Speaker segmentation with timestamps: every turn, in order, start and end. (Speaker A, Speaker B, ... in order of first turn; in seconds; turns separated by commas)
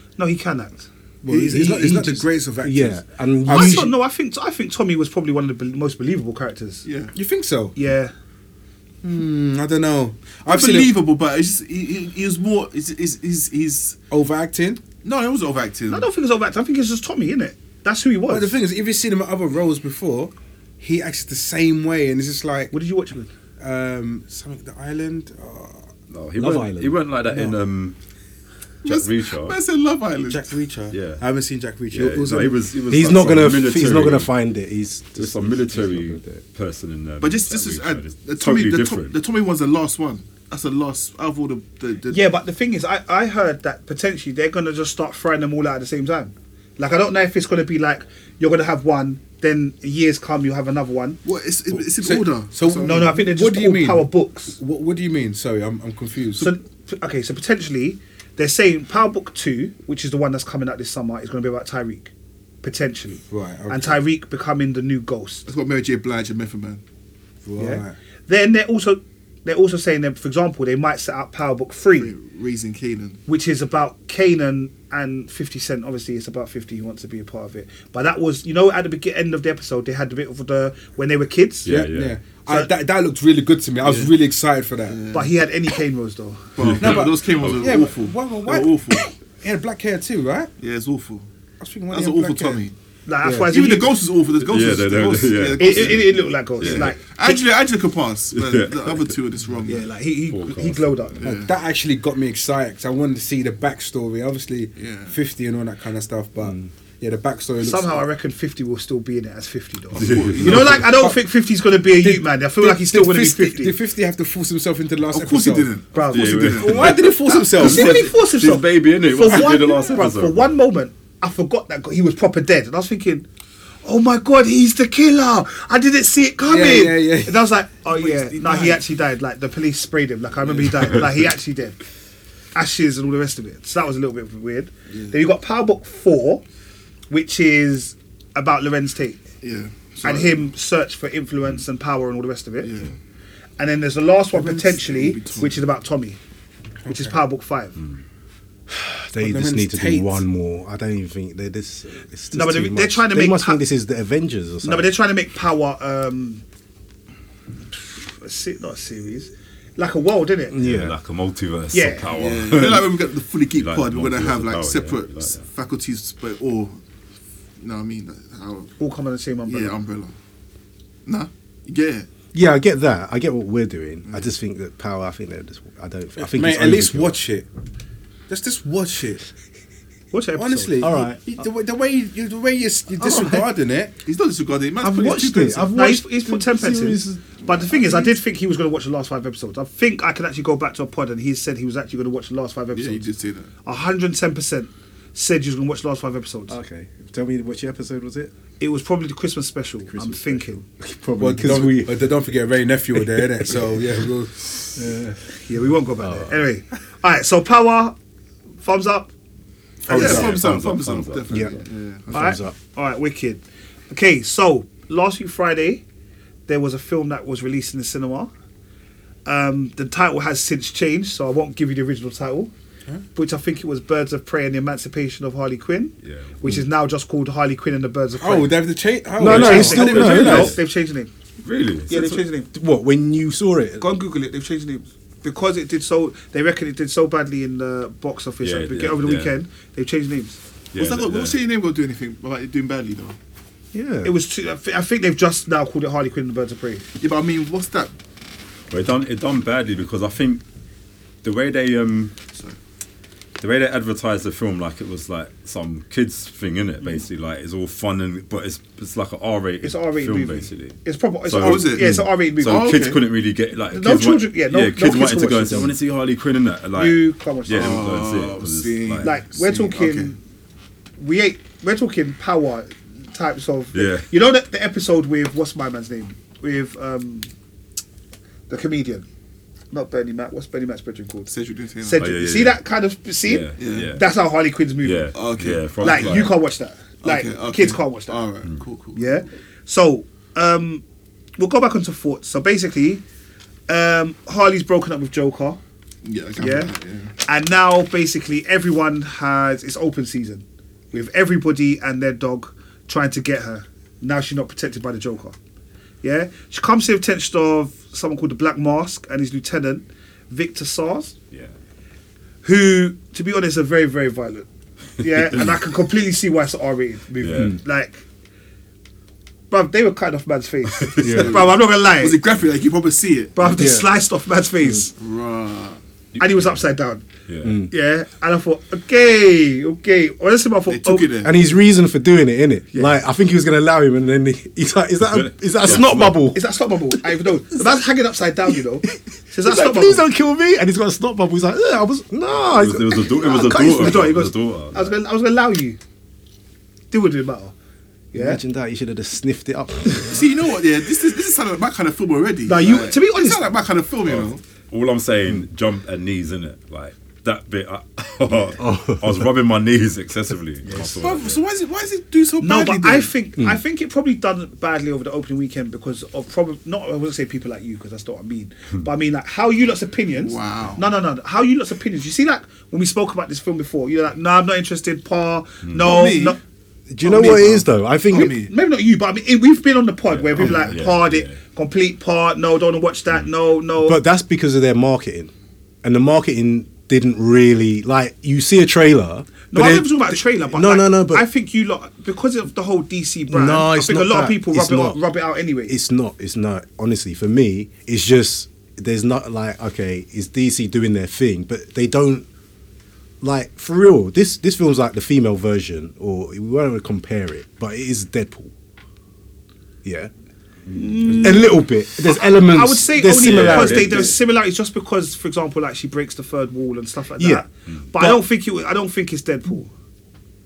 Speaker A: 0.2-0.9, Speaker B: 1.2-3.9, Speaker C: 1.2-3.9, Speaker A: 3.5-6.8, Speaker D: 6.8-7.1, Speaker C: 7.1-7.8, Speaker A: 7.7-8.1, Speaker C: 9.0-10.9, Speaker D: 10.4-14.0, Speaker C: 14.1-14.8, Speaker D: 15.0-16.1, Speaker A: 15.9-18.6, Speaker C: 18.3-22.7, Speaker A: 22.7-23.3, Speaker C: 23.6-25.9, Speaker E: 26.1-27.9, Speaker B: 26.4-27.0, Speaker D: 28.8-30.6, Speaker E: 28.8-29.6, Speaker C: 30.2-32.6, Speaker E: 30.9-31.2, Speaker E: 31.9-34.3, Speaker B: 32.9-36.4, Speaker E: 35.1-39.2, Speaker D: 37.2-42.2, Speaker A: 42.1-51.2, Speaker D: 51.2-53.1, Speaker C: 51.7-56.5, Speaker A: 52.8-54.6, Speaker A: 56.4-62.1, Speaker A: 62.6-65.5, Speaker C: 63.3-64.0, Speaker D: 65.5-66.8, Speaker C: 67.4-68.0, Speaker A: 67.6-72.1, Speaker D: 72.0-73.2, Speaker A: 73.3-81.7, Speaker E: 81.6-82.2, Speaker C: 81.6-85.0, Speaker D: 83.8-84.1, Speaker D: 84.9-85.3, Speaker A: 85.1-86.5, Speaker D: 86.6-89.1, Speaker E: 86.6-87.7, Speaker C: 86.8-90.5, Speaker D: 90.6-91.3, Speaker C: 91.6-92.6, Speaker D: 91.9-92.7, Speaker A: 93.0-94.0, Speaker C: 93.2-93.5, Speaker D: 93.5-99.8, Speaker E: 94.4-96.9, Speaker A: 95.6-97.4, Speaker E: 98.3-99.1, Speaker A: 99.6-101.2, Speaker E: 100.3-101.2, Speaker D: 101.2-101.6, Speaker C: 101.2-108.0, Speaker D: 104.8-105.2, Speaker A: 107.6-113.8, Speaker D: 109.9-110.9, Speaker E: 109.9-110.8, Speaker C: 110.4-111.2, Speaker C: 111.9-115.7, Speaker D: 115.1-117.9, Speaker A: 115.9-116.6, Speaker E: 116.1-120.5, Speaker C: 116.5-118.1, Speaker A: 117.6-123.3, Speaker A: 123.8-131.8, Speaker C: 126.4-127.5, Speaker D: 127.9-128.8, Speaker D: 130.4-131.0, Speaker A: 132.5-136.4, Speaker D: 134.9-135.2, Speaker A: 137.1-139.2, Speaker D: 139.4-140.4, Speaker A: 140.0-142.9, Speaker D: 142.6-142.9, Speaker A: 143.6-146.2, Speaker C: 144.3-144.9, Speaker D: 144.8-145.6, Speaker C: 146.8-147.2, Speaker A: 146.9-147.8, Speaker B: 148.7-154.9, Speaker C: 149.2-150.2, Speaker A: 152.3-153.6, Speaker A: 154.6-156.4, Speaker A: 157.7-160.6, Speaker B: 160.5-160.9, Speaker E: 160.6-163.0, Speaker A: 161.7-162.1, Speaker D: 162.1-166.8, Speaker E: 163.5-165.4, Speaker D: 167.6-168.7, Speaker A: 168.8-169.7, Speaker D: 169.5-170.1, Speaker D: 171.1-172.1, Speaker B: 172.3-177.2, Speaker C: 176.2-177.4, Speaker C: 178.3-179.2, Speaker A: 180.1-180.8, Speaker C: 180.3-183.9, Speaker B: 180.8-181.3, Speaker B: 183.0-183.4, Speaker D: 184.0-185.7, Speaker B: 184.8-188.1, Speaker A: 184.8-193.1, Speaker D: 192.7-193.5, Speaker A: 193.6-196.6, Speaker B: 196.5-198.3, Speaker A: 198.6-200.6, Speaker B: 199.9-202.1, Speaker C: 201.2-204.8, Speaker B: 204.8-205.2, Speaker A: 205.4-207.9, Speaker B: 206.0-206.4, Speaker A: 208.6-209.1, Speaker C: 209.8-210.3, Speaker A: 209.9-210.2, Speaker D: 209.9-212.4, Speaker E: 209.9-211.5, Speaker B: 211.3-211.5, Speaker B: 212.1-212.5, Speaker A: 212.1-215.8, Speaker A: 216.5-218.3, Speaker A: 219.2-222.5, Speaker A: 223.1-228.6, Speaker E: 226.0-226.4, Speaker C: 228.2-230.6, Speaker B: 229.2-230.5, Speaker A: 229.2-231.1, Speaker E: 230.1-230.5, Speaker E: 231.4-232.2, Speaker A: 231.9-232.5, Speaker B: 232.5-233.8, Speaker A: 233.8-240.4, Speaker E: 238.4-239.3, Speaker E: 240.7-241.4, Speaker D: 240.8-243.2, Speaker B: 243.7-244.1, Speaker A: 244.0-246.8, Speaker D: 247.0-247.9, Speaker E: 248.7-250.4, Speaker E: 251.2-252.2, Speaker E: 253.4-269.1, Speaker A: 259.6-262.8, Speaker D: 261.4-263.0, Speaker A: 263.7-265.7, Speaker A: 266.7-267.9, Speaker D: 267.5-270.1, Speaker A: 269.0-270.2, Speaker A: 271.0-277.3, Speaker E: 273.7-274.1, Speaker A: 278.5-279.1, Speaker A: 279.7-285.2, Speaker D: 281.3-282.1, Speaker E: 282.0-282.6, Speaker E: 283.2-284.0, Speaker D: 283.6-283.9, Speaker E: 284.8-286.3, Speaker D: 285.1-286.3, Speaker A: 285.8-288.2, Speaker D: 287.0-289.0, Speaker A: 288.9-290.8, Speaker A: 291.4-293.0, Speaker A: 293.7-295.6, Speaker D: 296.0-297.1, Speaker A: 296.4-305.4, Speaker A: 306.0-311.1, Speaker A: 312.4-318.0, Speaker E: 317.2-317.5, Speaker A: 319.5-322.2, Speaker E: 320.8-321.2, Speaker D: 321.0-323.5, Speaker A: 323.3-324.9, Speaker B: 323.4-323.9, Speaker D: 324.9-325.8, Speaker E: 326.1-326.6, Speaker A: 326.2-327.0, Speaker E: 327.3-327.6, Speaker B: 327.4-327.7, Speaker A: 327.7-331.1, Speaker D: 330.7-331.4, Speaker B: 331.2-337.0, Speaker E: 335.0-336.2, Speaker A: 336.3-340.0, Speaker B: 338.9-344.0, Speaker E: 342.4-344.9, Speaker A: 343.2-345.8, Speaker A: 346.9-347.5, Speaker A: 348.1-348.4, Speaker B: 348.1-350.2, Speaker D: 350.1-354.4, Speaker A: 352.5-353.5, Speaker E: 354.1-361.4, Speaker B: 358.6-359.3, Speaker D: 360.7-363.1, Speaker A: 362.4-376.4, Speaker D: 370.1-370.9, Speaker D: 375.7-376.4, Speaker B: 376.9-378.3, Speaker A: 377.0-384.0, Speaker D: 377.1-378.5, Speaker E: 380.1-381.4, Speaker B: 383.8-385.3, Speaker B: 385.8-391.2, Speaker A: 389.5-395.7, Speaker B: 393.3-395.0, Speaker B: 395.7-402.2, Speaker B: 403.2-408.5, Speaker B: 409.8-410.1, Speaker A: 410.7-419.7, Speaker B: 411.0-414.1, Speaker E: 413.1-414.1, Speaker B: 417.2-418.2